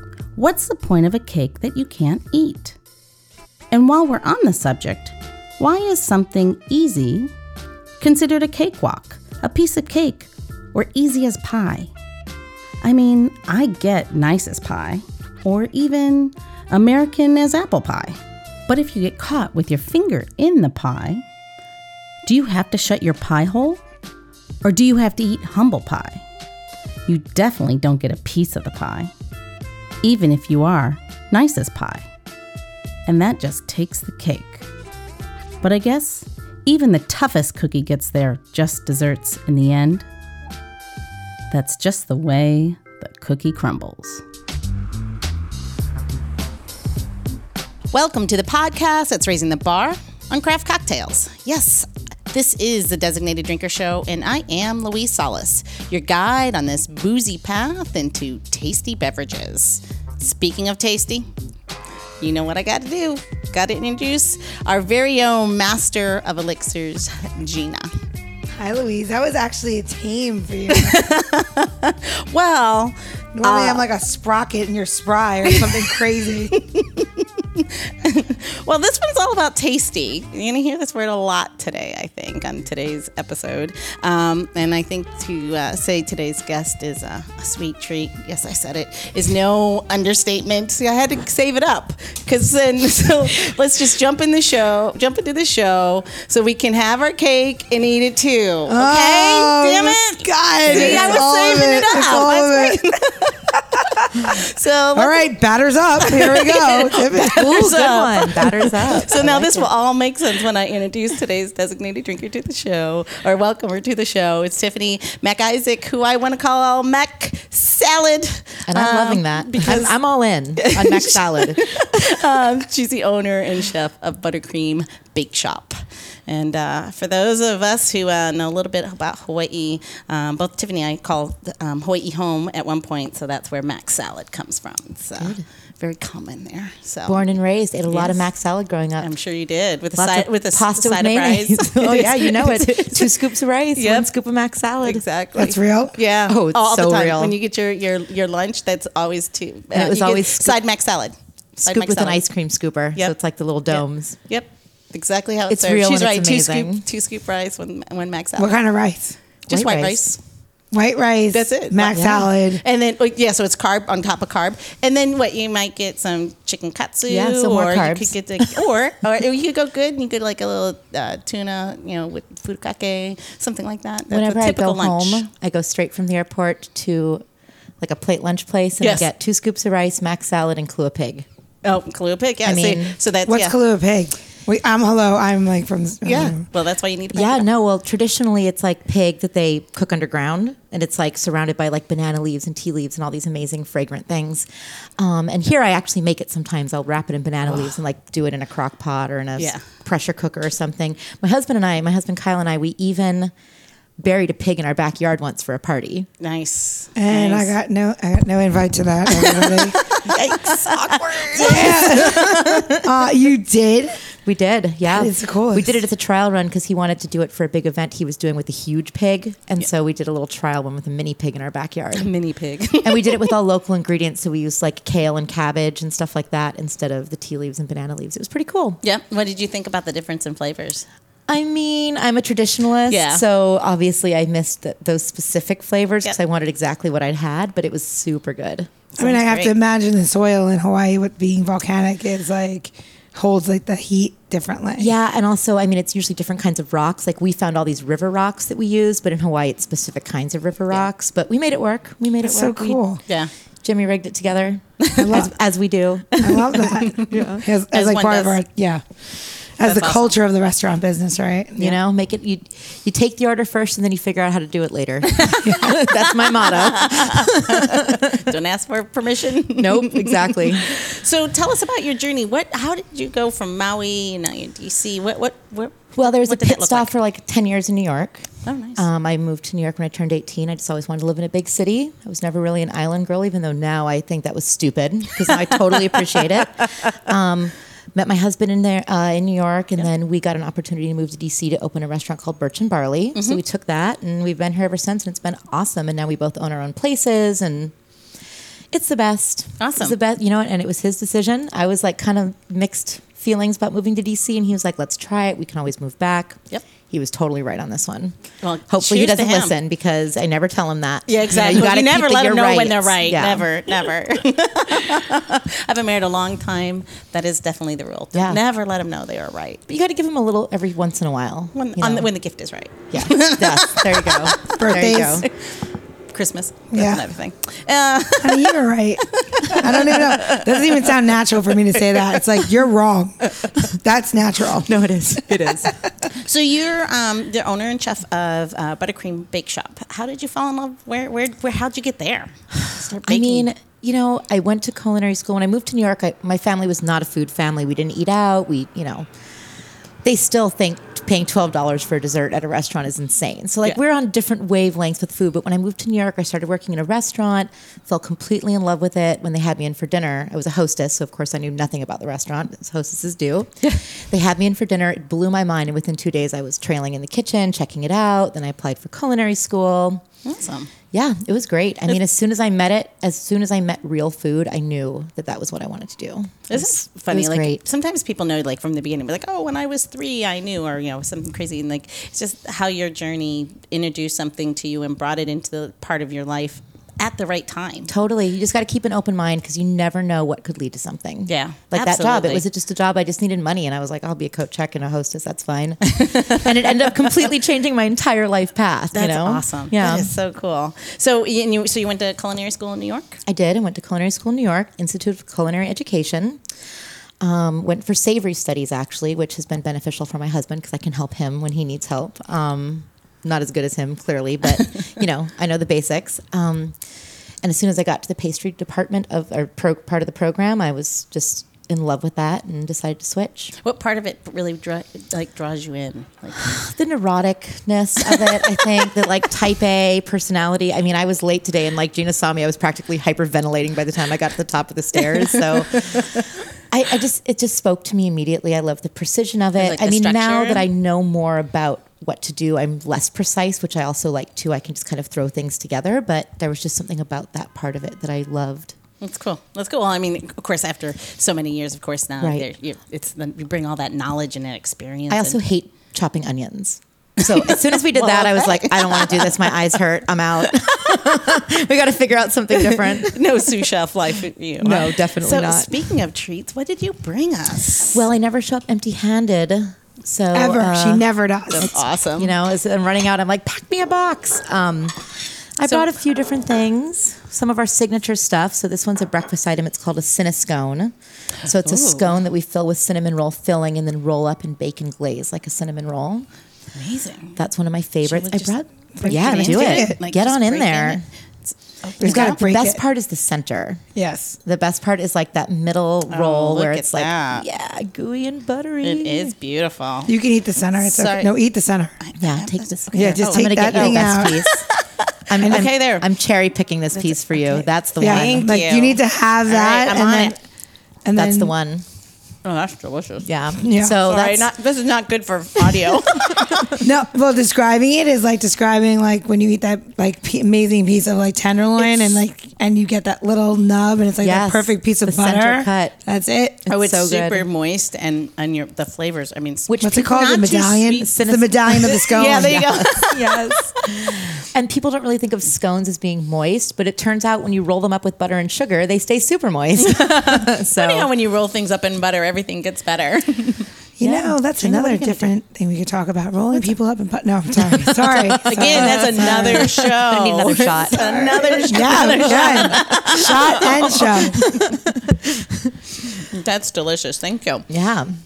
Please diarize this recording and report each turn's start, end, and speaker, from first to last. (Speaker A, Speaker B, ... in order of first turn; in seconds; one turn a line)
Speaker A: 0.4-2.8
Speaker A: 3.7-7.3
Speaker A: 8.0-11.9
Speaker A: 12.8-18.2
Speaker A: 18.7-21.2
Speaker A: 22.3-23.8
Speaker A: 24.6-26.2
Speaker A: 27.1-29.1
Speaker A: 30.0-32.0
Speaker A: 33.1-34.7
Speaker A: 35.6-40.0
Speaker A: 41.5-44.2
Speaker A: 47.9-61.3
Speaker A: 62.2-67.9
Speaker B: 68.6-71.1
Speaker A: 70.7-73.8
Speaker B: 73.3-76.5
Speaker A: 75.5-105.3
Speaker B: 98.7-102.9
Speaker C: 100.7-101.3
Speaker B: 103.8-104.4
Speaker B: 104.9-107.7
Speaker A: 106.0-120.0
Speaker C: 107.3-109.7
Speaker C: 118.7-121.6
Speaker A: 120.6-137.3
Speaker C: 137.1-139.1
Speaker A: 137.9-138.2
Speaker A: 139.0-143.2
Speaker C: 139.9-145.0
Speaker A: 143.8-144.1
Speaker A: 144.8-152.2
Speaker B: 145.3-145.9
Speaker C: 146.3-147.3
Speaker C: 149.7-150.6
Speaker C: 151.6-154.2
Speaker A: 153.7-158.6
Speaker C: 155.5-156.8
Speaker B: 158.4-159.2
Speaker A: 159.5-160.2
Speaker C: 159.5-160.1
Speaker B: 160.7-162.6
Speaker A: 161.3-175.3
Speaker C: 167.1-168.6
Speaker C: 174.1-177.2
Speaker C: 177.8-181.2
Speaker A: 178.8-179.1
Speaker A: 181.6-183.6
Speaker C: 182.4-182.9
Speaker B: 183.2-186.4
Speaker A: 186.0-187.4
Speaker C: 187.1-203.3
Speaker A: 199.4-199.6
Speaker C: 204.0-206.1
Speaker A: 206.2-207.5
Speaker B: 206.9-209.9
Speaker A: 209.2-212.6
Speaker C: 210.0-212.9
Speaker B: 211.3-214.0
Speaker C: 214.2-222.1
Speaker B: 214.9-215.8
Speaker A: 221.9-223.3
Speaker C: 222.8-228.8
Speaker A: 228.8-230.8
Speaker C: 231.3-238.7
Speaker A: 232.9-233.2
Speaker A: 238.9-239.5
Speaker B: 239.0-244.9
Speaker C: 244.8-252.8
Speaker B: 252.2-253.0
Speaker C: 253.6-256.4
Speaker A: 254.8-255.1
Speaker B: 255.0-255.3
Speaker A: 256.1-257.1
Speaker B: 256.2-258.8
Speaker C: 257.1-257.4
Speaker A: 257.7-258.4
Speaker B: 259.6-261.8
Speaker A: 259.6-260.1
Speaker C: 261.6-268.2
Speaker A: 265.2-276.9
Speaker C: 269.6-270.8
Speaker C: 275.9-297.7
Speaker A: 278.4-278.8
Speaker A: 293.1-293.4
Speaker C: 298.7-308.1
Speaker A: 299.6-300.0
Speaker A: 308.4-309.6
Speaker C: 308.7-313.5
Speaker A: 311.1-319.6
Speaker C: 318.1-318.4
Speaker C: 319.7-322.1
Speaker A: 321.5-324.6
Speaker C: 322.9-325.3
Speaker B: 324.5-325.2
Speaker A: 326.1-331.0
Speaker B: 326.7-327.1
Speaker B: 328.2-334.7
Speaker A: 331.9-332.4
Speaker C: 334.6-335.8
Speaker A: 336.1-343.5
Speaker C: 342.6-349.1
Speaker C: 350.0-370.1
Speaker A: 370.2-370.7
Speaker C: 370.9-377.6
Speaker A: 376.5-387.9
Speaker C: 387.9-400.1
Speaker A: 391.3-392.4
Speaker A: 395.9-396.5
Speaker A: 398.9-403.2
Speaker C: 403.2-406.4
Speaker C: 407.2-416.8
Speaker C: 417.4-423.5
Speaker A: 423.6-426.5
Speaker C: 426.4-448.8
Speaker A: 428.1-428.4
Speaker A: 435.7-436.2
Speaker A: 439.6-440.7
Speaker A: 449.0-455.4
Speaker C: 452.2-452.5
Speaker C: 455.1-463.5
Speaker A: 457.2-459.7
Speaker A: 462.6-468.0
Speaker C: 464.6-465.7
Speaker C: 467.9-471.1
Speaker B: 470.3-471.7
Speaker A: 471.5-472.3
Speaker C: 471.6-475.0
Speaker C: 475.6-480.9
Speaker A: 481.4-482.2
Speaker C: 481.4-486.3
Speaker A: 486.8-487.4
Speaker C: 487.4-491.0
Speaker A: 488.0-492.4
Speaker B: 489.0-490.0
Speaker B: 492.0-492.8
Speaker C: 492.0-493.8
Speaker B: 493.9-494.4
Speaker C: 494.4-499.3
Speaker A: 496.1-497.5
Speaker A: 498.8-500.1
Speaker B: 500.1-501.9
Speaker A: 500.8-501.3
Speaker A: 502.0-506.1
Speaker C: 502.2-504.7
Speaker B: 502.9-504.5
Speaker C: 505.3-508.5
Speaker A: 507.0-510.4
Speaker B: 508.0-510.4
Speaker B: 511.0-511.5
Speaker C: 511.1-511.9
Speaker A: 512.5-513.3
Speaker C: 513.2-514.5
Speaker B: 513.6-514.0
Speaker A: 513.9-516.9
Speaker B: 516.8-526.6
Speaker A: 521.8-522.1
Speaker C: 524.2-526.0
Speaker C: 526.6-527.5
Speaker A: 526.7-531.1
Speaker C: 529.7-541.1
Speaker B: 529.8-532.7
Speaker A: 531.7-534.2
Speaker A: 539.8-545.3
Speaker B: 544.0-549.8
Speaker A: 548.1-554.9
Speaker C: 548.3-555.7
Speaker B: 550.9-554.5
Speaker A: 556.0-557.6
Speaker C: 557.7-558.1